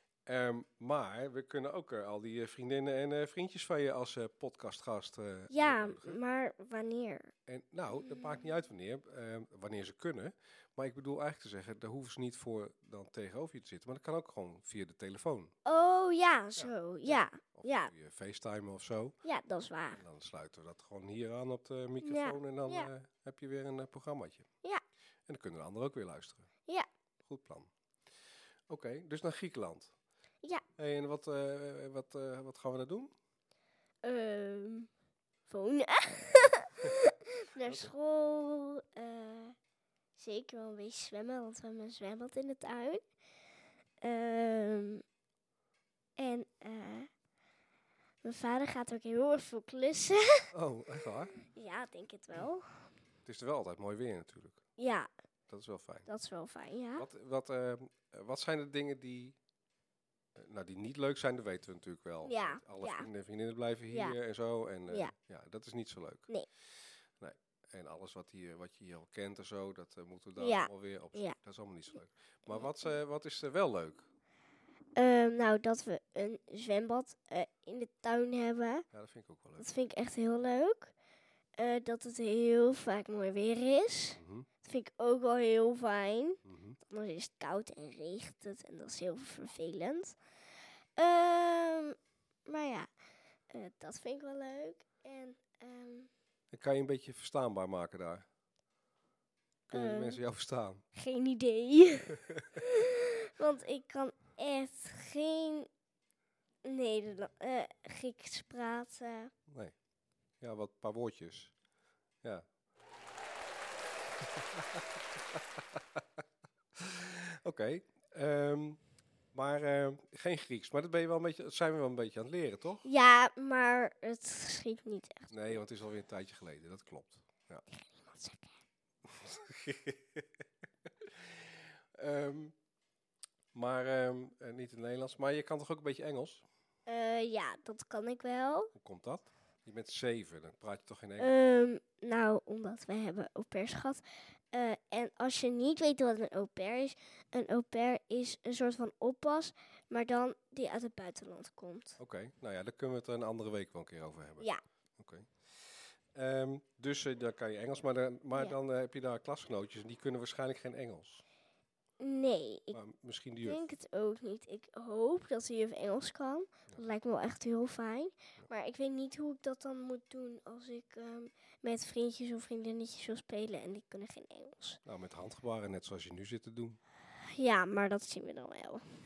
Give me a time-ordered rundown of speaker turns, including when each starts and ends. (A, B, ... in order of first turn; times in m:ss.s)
0:00.3-0:06.2 A
0:05.5-0:07.3 B
0:07.5-0:15.6 A
0:08.0-0:08.5 B
0:15.6-0:17.9 B
0:16.6-0:19.2 A
0:19.2-0:20.0 B
0:19.9-0:24.5 A
0:22.0-0:22.9 B
0:25.3-0:26.5 A
0:27.2-0:27.7 A
0:28.7-0:29.9 A
0:30.8-0:33.1 A
0:34.0-0:34.9 B
0:35.5-0:39.6 B
0:37.6-0:37.9 A
0:40.2-0:43.0 B
0:44.0-0:45.0 B
0:46.2-0:47.1 B
0:48.2-0:50.5 B
0:50.5-0:51.3 A
0:51.4-0:52.9 B
0:53.2-0:54.6 A
0:54.8-0:55.1 B
0:55.5-0:56.1 A
0:56.1-0:57.1 B
0:57.0-0:59.4 A
1:00.4-1:06.3 A
1:02.2-1:03.1 B
1:03.9-1:04.2 B
1:07.2-1:14.1 A
1:10.4-1:11.4 B
1:15.0-1:18.9 B
1:18.9-1:19.7 A
1:19.6-1:20.9 B
1:21.6-1:30.2 B
1:24.2-1:24.5 A
1:26.4-1:26.8 A
1:31.0-1:32.9 B
1:33.5-1:36.1 B
1:36.5-1:38.2 A
1:39.7-1:40.8 A
1:39.7-1:40.2 B
1:40.9-1:45.7 B
1:42.2-1:42.6 A
1:46.6-1:49.3 B
1:49.5-1:49.7 A
1:50.4-1:51.5 A
1:54.3-1:56.0 A
1:56.8-1:58.8 A
1:59.3-2:02.9 A
2:02.8-2:05.6 B
2:05.3-2:07.6 A
2:07.7-2:08.6 B
2:09.1-2:10.3 A
2:11.0-2:12.6 A
2:13.5-2:16.4 A
2:16.9-2:18.7 B
2:18.7-2:21.3 A
2:21.2-2:32.0 B
2:32.0-2:41.2 A
2:42.0-2:42.8 B
2:42.7-2:43.7 A
2:43.4-2:54.8 B
2:54.8-2:56.8 A
2:57.2-2:58.8 B